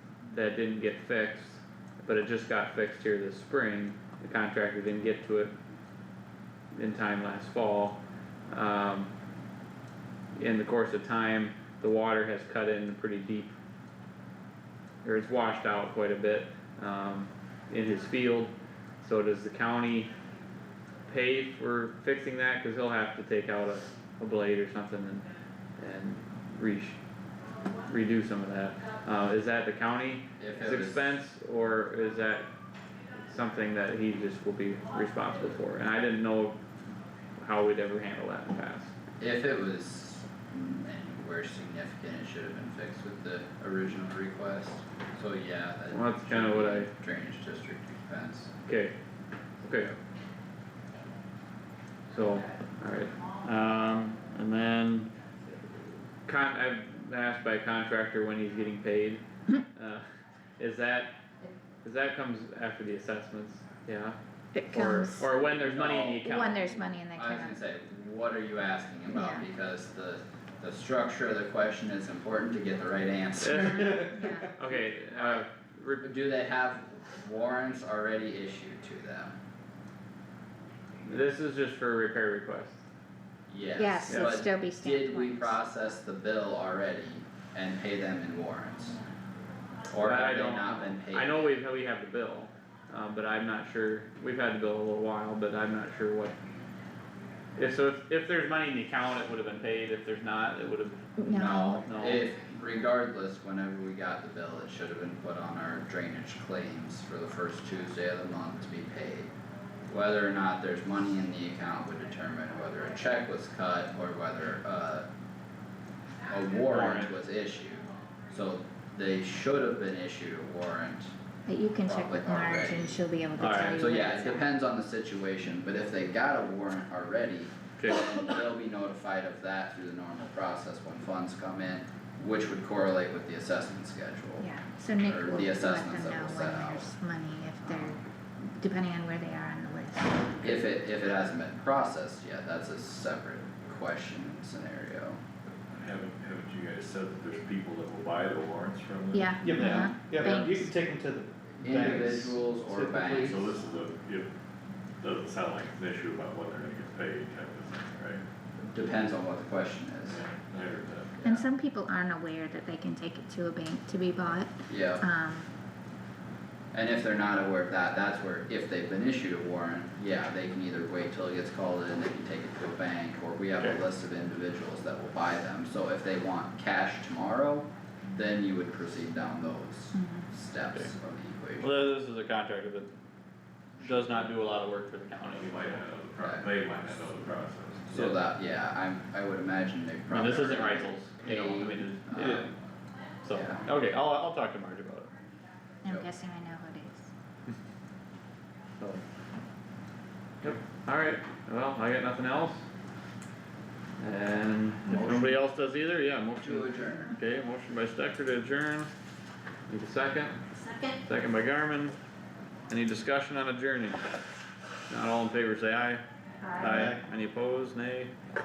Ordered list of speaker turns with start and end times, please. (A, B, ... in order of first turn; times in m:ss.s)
0:00.3-0:05.5 A
0:06.7-0:09.1 A
0:10.4-0:13.5 A
0:15.0-0:20.1 A
0:21.1-0:25.2 A
0:25.8-0:27.0 A
0:27.8-0:32.5 A
0:30.4-0:31.1 B
0:33.2-0:36.6 A
0:37.4-0:38.9 A
0:39.2-0:48.5 B
0:45.9-0:46.9 A
0:48.6-0:48.9 A
0:49.6-0:49.9 A
0:52.1-0:55.1 A
0:56.2-1:00.0 A
1:00.6-1:01.2 A
1:01.8-1:06.7 A
1:04.5-1:05.2 C
1:05.3-1:06.3 B
1:06.2-1:07.6 C
1:07.1-1:14.2 B
1:09.1-1:09.5 C
1:13.4-1:16.1 A
1:13.8-1:14.5 C
1:15.1-1:15.4 B
1:16.0-1:19.3 B
1:21.0-1:22.8 A
1:23.5-1:29.0 B
1:23.8-1:25.6 C
1:24.1-1:24.4 A
1:29.9-1:31.5 B
1:30.0-1:36.4 A
1:37.6-1:42.2 A
1:41.2-1:41.8 C
1:41.3-1:49.3 B
1:49.9-1:55.1 B
1:56.3-2:01.1 B
1:56.7-1:57.1 A
2:01.4-2:04.4 C
2:01.8-2:03.0 B
2:03.4-2:03.8 A
2:03.6-2:14.4 B
2:07.8-2:08.1 A
2:14.4-2:20.5 C
2:15.0-2:16.8 B
2:17.7-2:17.9 B
2:20.4-2:25.2 B
2:25.7-2:29.4 D
2:29.1-2:30.7 C
2:29.4-2:33.4 E
2:31.6-2:33.5 B
2:33.2-2:34.3 D
2:35.0-2:38.2 D
2:38.6-2:40.2 B
2:40.1-2:41.1 D
2:41.2-2:41.4 B
2:41.2-2:45.5 C
2:44.7-2:45.0 B
2:46.7-3:01.7 B
2:59.9-3:00.3 C
3:01.6-3:02.9 A
3:03.8-3:04.3 B
3:03.8-3:05.6 A
3:05.3-3:08.0 D
3:06.2-3:06.5 B
3:07.9-3:12.5 B
3:10.1-3:12.5 A
3:13.2-3:15.1 A
3:13.3-3:13.6 B
3:15.8-3:17.1 C
3:20.4-3:22.6 A
3:24.0-3:28.9 A
3:24.9-3:25.4 B
3:26.4-3:27.1 B
3:29.7-3:30.4 A
3:31.0-3:32.0 A
3:32.7-3:34.0 A
3:34.9-3:36.0 A
3:36.4-3:36.7 C
3:36.6-3:38.1 A